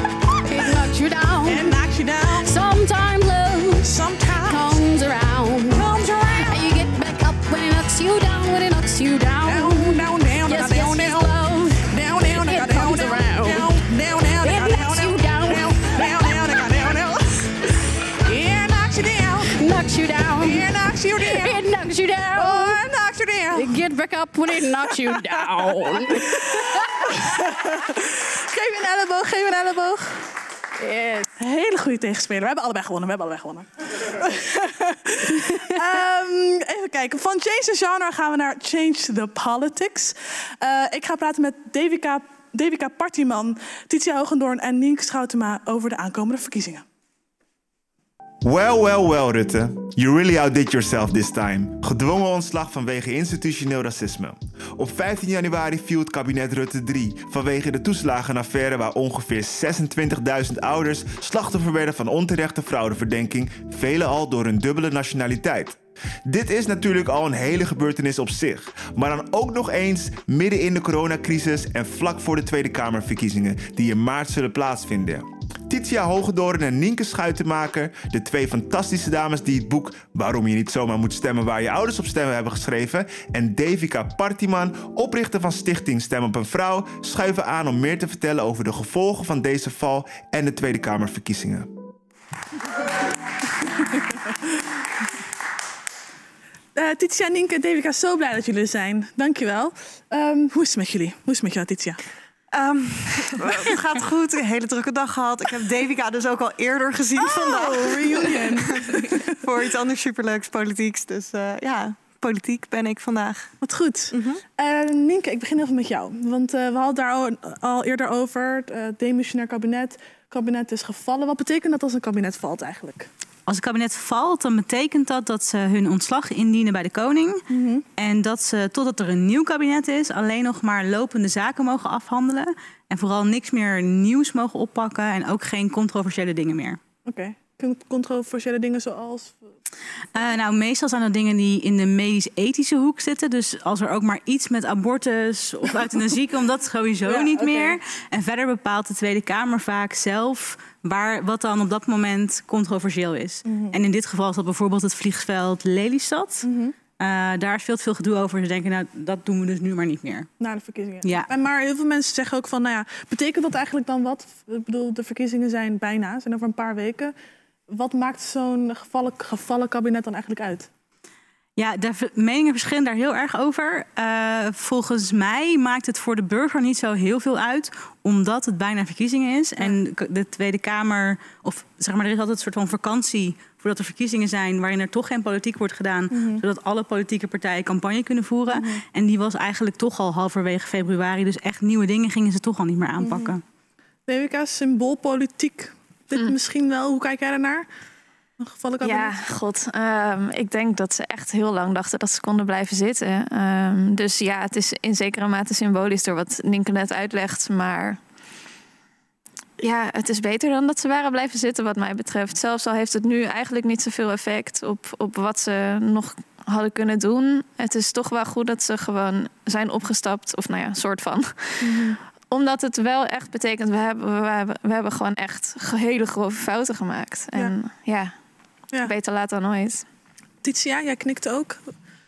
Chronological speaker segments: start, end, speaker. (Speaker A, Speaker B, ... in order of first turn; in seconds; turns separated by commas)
Speaker A: 0.4-1.7, Speaker B: 1.4-2.5, Speaker A: 2.4-3.9, Speaker B: 3.8-4.8, Speaker A: 4.5-5.9, Speaker B: 5.7-6.6, Speaker A: 6.4-13.7, Speaker B: 9.4-19.6, Speaker A: 14.4-16.4, Speaker A: 19.5-20.6, Speaker B: 20.4-21.6, Speaker A: 21.2-22.8, Speaker B: 22.3-23.8, Speaker A: 23.5-27.1, Speaker B: 24.5-30.3, Speaker A: 30.8-31.3, Speaker B: 31.4-46.8, Speaker C: 48.4-91.7, Speaker B: 96.8-102.0, Speaker D: 102.5-113.5, Speaker B: 107.2-109.3, Speaker B: 113.6-123.1, Speaker D: 114.1-114.4, Speaker E: 123.5-127.4, Speaker B: 127.5-127.8, Speaker E: 128.0-136.8, Speaker B: 137.1-139.4, Speaker E: 140.1-156.5, Speaker B: 147.1-147.8, Speaker B: 153.4-153.8, Speaker B: 156.4-156.8, Speaker E: 157.0-160.3, Speaker B: 160.4-167.1, Speaker E: 161.0-161.3, Speaker B: 167.7-170.7, Speaker E: 171.6-193.4, Speaker B: 186.1-186.4, Speaker B: 188.5-188.8, Speaker B: 193.0-193.3, Speaker B: 194.1-197.7, Speaker B: 198.4-199.2, Speaker F: 198.8-208.0, Speaker F: 209.6-228.1, Speaker B: 221.6-222.0, Speaker F: 228.8-229.8, Speaker B: 230.4-231.7